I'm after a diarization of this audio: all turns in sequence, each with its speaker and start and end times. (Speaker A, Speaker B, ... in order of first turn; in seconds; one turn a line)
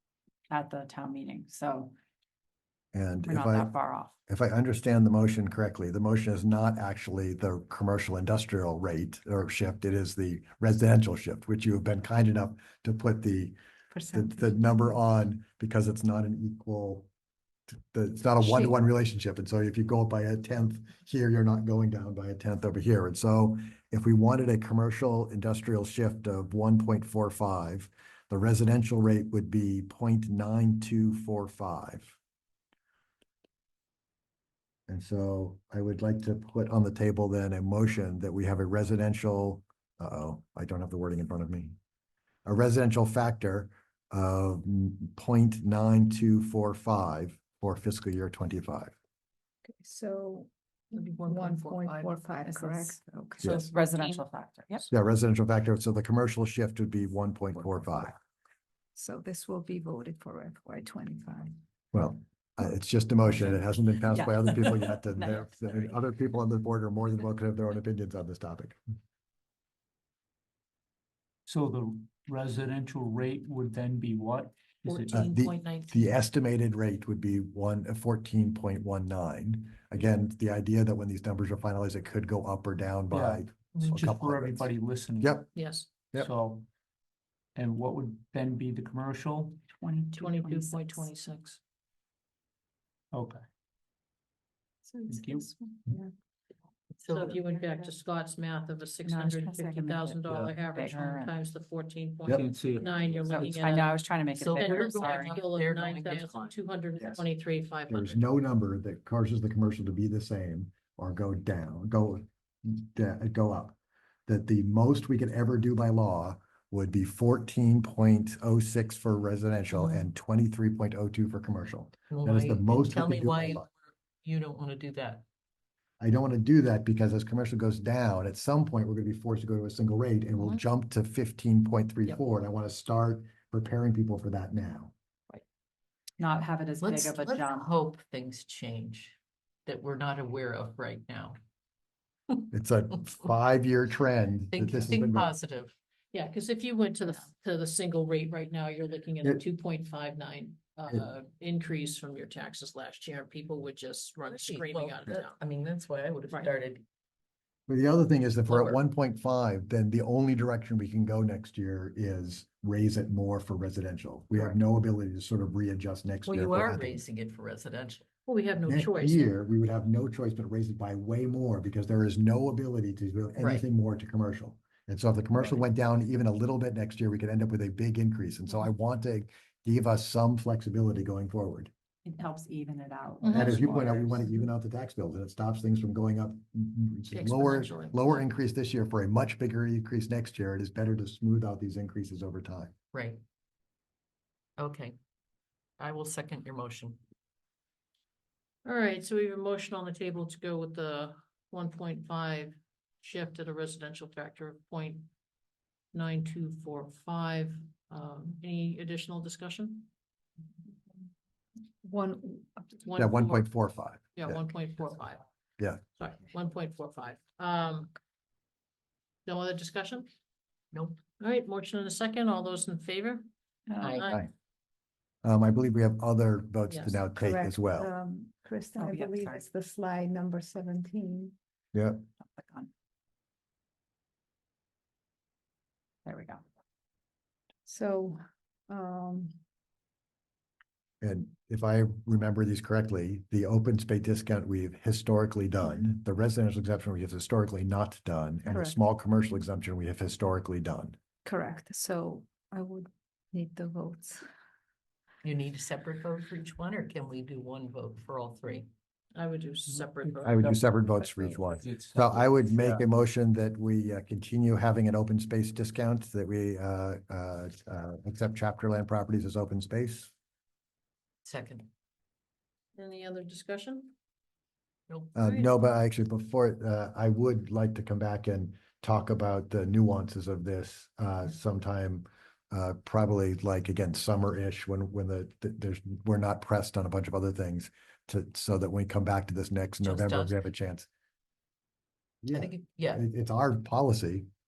Speaker A: 0.5-1.9
Speaker B: 2.9-3.7
Speaker A: 3.2-4.1
Speaker B: 4.3-13.6
Speaker C: 13.9-14.9
Speaker B: 14.1-17.1
Speaker B: 17.7-32.2
Speaker B: 34.9-41.8
Speaker B: 42.5-49.0
Speaker C: 49.7-53.6
Speaker D: 51.0-52.1
Speaker A: 52.5-54.9
Speaker B: 54.9-58.2
Speaker C: 59.0-61.6
Speaker B: 61.9-68.8
Speaker A: 64.1-65.6
Speaker E: 71.5-75.4
Speaker D: 74.8-76.2
Speaker B: 75.1-84.7
Speaker E: 83.1-85.5
Speaker B: 85.2-86.3
Speaker D: 85.5-86.1
Speaker E: 86.2-86.7
Speaker E: 87.5-89.7
Speaker C: 89.8-91.2
Speaker D: 90.1-91.6
Speaker E: 93.1-93.4
Speaker C: 94.9-96.1
Speaker E: 95.1-95.5
Speaker F: 97.0-97.4
Speaker D: 97.1-108.2
Speaker C: 97.3-98.0
Speaker A: 99.0-101.3
Speaker E: 100.3-100.5
Speaker E: 102.3-103.6
Speaker A: 103.2-105.4
Speaker F: 104.3-106.5
Speaker B: 107.9-123.7
Speaker F: 119.7-120.1
Speaker F: 122.1-125.2
Speaker B: 126.0-134.9
Speaker A: 136.2-137.7
Speaker F: 136.8-141.4
Speaker B: 142.5-145.3
Speaker F: 144.5-145.8
Speaker D: 146.1-155.4
Speaker F: 154.3-156.8
Speaker B: 157.7-167.0
Speaker F: 158.5-158.8
Speaker F: 166.3-168.1
Speaker D: 168.3-169.3
Speaker B: 168.6-181.7
Speaker F: 173.4-173.7
Speaker A: 182.1-184.3
Speaker D: 183.2-183.6
Speaker B: 183.3-192.7
Speaker D: 187.1-188.2
Speaker F: 192.9-193.2
Speaker F: 194.6-195.0
Speaker F: 195.8-197.0
Speaker D: 198.7-205.1
Speaker D: 205.9-209.9
Speaker C: 211.8-212.8
Speaker D: 212.8-213.5
Speaker B: 212.9-214.4
Speaker D: 214.2-215.2
Speaker D: 216.0-217.9
Speaker D: 219.3-220.1
Speaker F: 220.7-221.0
Speaker D: 221.2-223.3
Speaker F: 223.8-224.1
Speaker D: 223.9-224.2
Speaker B: 225.2-227.9
Speaker D: 226.7-227.1
Speaker C: 227.2-231.3
Speaker A: 228.8-229.4
Speaker B: 231.7-232.0
Speaker A: 232.2-232.7
Speaker A: 236.1-236.4
Speaker C: 237.7-239.4
Speaker B: 241.0-251.0
Speaker C: 248.5-248.8
Speaker C: 251.2-254.3
Speaker F: 255.2-258.7
Speaker D: 259.1-260.6
Speaker E: 260.0-260.6
Speaker B: 260.2-270.1
Speaker E: 261.4-262.8
Speaker F: 271.2-271.7
Speaker D: 272.8-273.9
Speaker F: 274.9-275.1
Speaker B: 275.1-290.9
Speaker D: 275.2-275.5
Speaker F: 289.8-290.4
Speaker B: 292.2-294.3
Speaker F: 292.3-293.1